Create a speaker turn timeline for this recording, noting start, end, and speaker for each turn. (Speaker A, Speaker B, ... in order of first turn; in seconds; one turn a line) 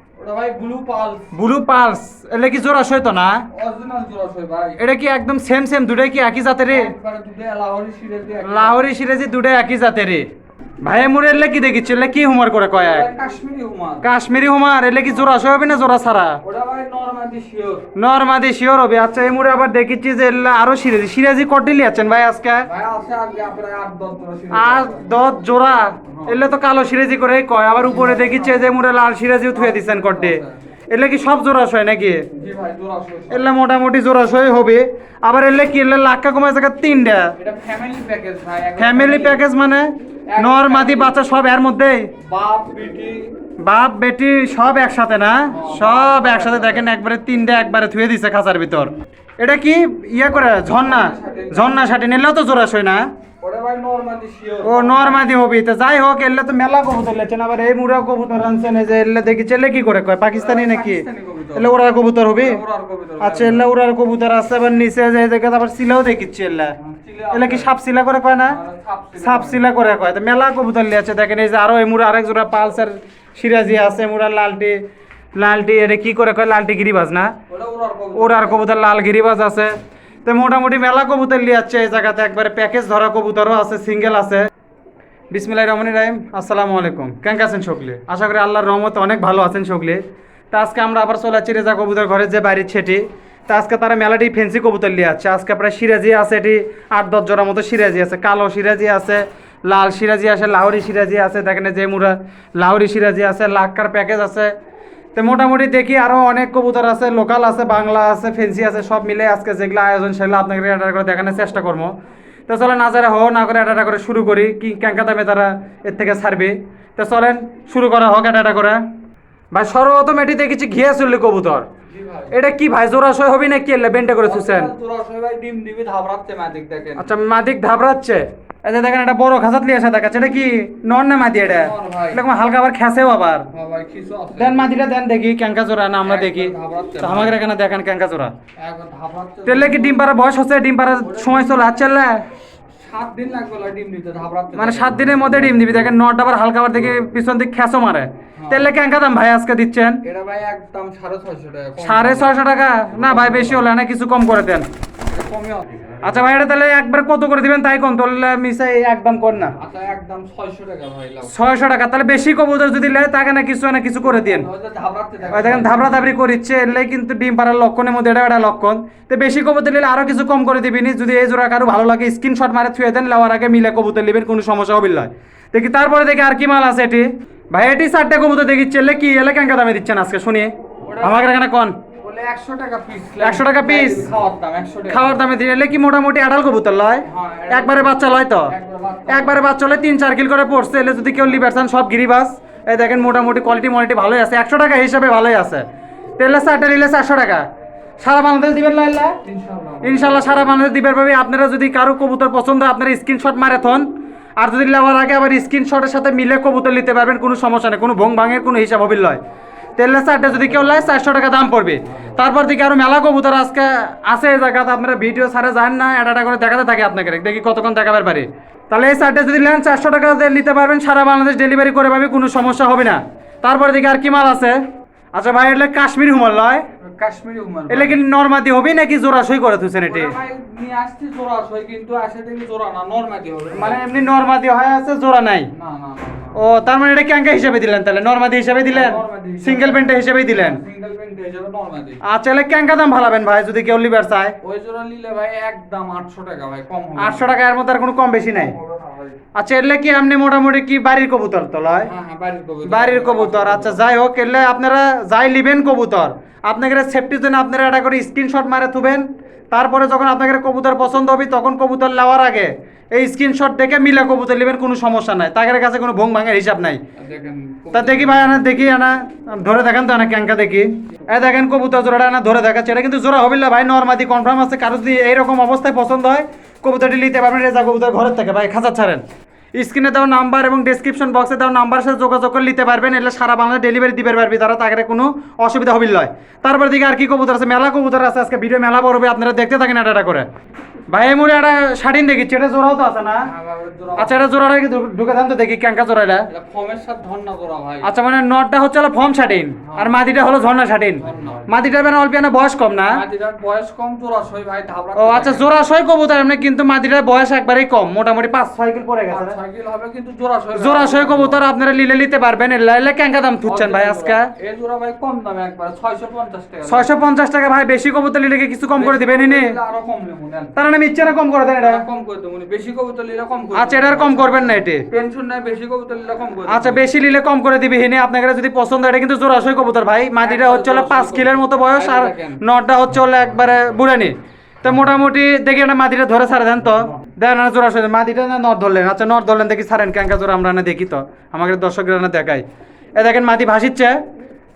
Speaker A: 0.2-1.3
Speaker B: 1.3-3.5
Speaker A: 3.5-4.8
Speaker B: 4.8-6.9
Speaker A: 6.7-8.8
Speaker B: 8.4-10.3
Speaker B: 10.8-13.1
Speaker A: 12.7-14.1
Speaker B: 14.0-16.4
Speaker A: 16.4-17.9
Speaker B: 18.0-22.7
Speaker A: 22.6-25.1
Speaker B: 24.5-32.3
Speaker A: 26.1-26.4
Speaker A: 27.8-28.8
Speaker A: 29.5-30.6
Speaker A: 32.3-33.5
Speaker B: 33.3-37.3
Speaker A: 37.4-39.4
Speaker B: 38.8-42.1
Speaker A: 40.3-41.2
Speaker A: 42.2-43.3
Speaker B: 43.6-53.1
Speaker A: 45.5-46.9
Speaker A: 50.7-51.9
Speaker A: 53.4-55.3
Speaker B: 54.6-62.6
Speaker A: 60.3-61.7
Speaker A: 62.4-63.7
Speaker B: 63.2-66.7
Speaker A: 66.8-67.7
Speaker B: 67.3-68.6
Speaker A: 68.5-69.6
Speaker B: 69.2-74.8
Speaker B: 75.3-77.3
Speaker A: 77.5-78.6
Speaker B: 78.2-79.7
Speaker B: 80.2-84.5
Speaker B: 85.3-104.5
Speaker B: 105.2-112.0
Speaker B: 112.5-118.8
Speaker B: 119.5-121.7
Speaker A: 121.9-122.3
Speaker B: 122.3-124.7
Speaker A: 124.2-127.1
Speaker B: 127.0-133.5
Speaker A: 131.4-132.2
Speaker A: 133.5-134.7
Speaker B: 134.4-138.3
Speaker A: 136.0-137.4
Speaker A: 138.6-140.0
Speaker B: 139.5-142.2
Speaker A: 141.0-141.8
Speaker A: 142.8-145.0
Speaker B: 144.6-150.0
Speaker A: 148.4-148.7
Speaker A: 150.0-152.4
Speaker B: 151.8-154.7
Speaker A: 153.0-153.7
Speaker A: 155.1-155.7
Speaker B: 156.0-159.6
Speaker A: 159.6-161.3
Speaker B: 161.3-164.5
Speaker A: 164.0-166.1
Speaker B: 165.3-181.8
Speaker A: 180.8-181.3
Speaker A: 182.0-185.2
Speaker B: 183.2-184.1
Speaker B: 184.9-188.5
Speaker A: 187.0-189.4
Speaker B: 189.1-195.7
Speaker B: 196.2-197.5
Speaker B: 198.0-199.2
Speaker A: 199.2-200.5
Speaker B: 199.8-203.9
Speaker B: 204.4-209.2
Speaker B: 209.8-224.6
Speaker B: 225.1-226.6
Speaker A: 226.8-228.0
Speaker B: 227.7-230.2
Speaker A: 229.9-233.8
Speaker B: 233.5-235.5
Speaker A: 235.6-236.4
Speaker B: 236.4-240.6
Speaker A: 238.7-242.0
Speaker B: 242.1-244.3
Speaker A: 244.4-247.3
Speaker B: 247.0-248.6
Speaker A: 248.3-249.2
Speaker B: 249.3-251.9
Speaker A: 251.8-253.8
Speaker B: 252.7-266.8
Speaker A: 267.0-268.4
Speaker B: 267.7-279.0
Speaker B: 279.6-290.3
Speaker B: 290.9-293.3
Speaker A: 293.2-294.1
Speaker B: 294.0-296.3
Speaker A: 296.3-297.9
Speaker B: 297.8-303.0
Speaker A: 299.6-300.0
Speaker A: 301.0-301.4
Speaker A: 302.9-305.4
Speaker B: 305.0-309.4
Speaker A: 309.1-311.4
Speaker B: 310.6-314.3
Speaker A: 313.5-316.9
Speaker B: 316.7-319.5
Speaker A: 318.7-320.6
Speaker B: 320.6-321.8
Speaker A: 321.6-326.8
Speaker B: 323.6-324.9
Speaker B: 326.5-342.4
Speaker A: 330.2-332.4
Speaker B: 343.0-344.0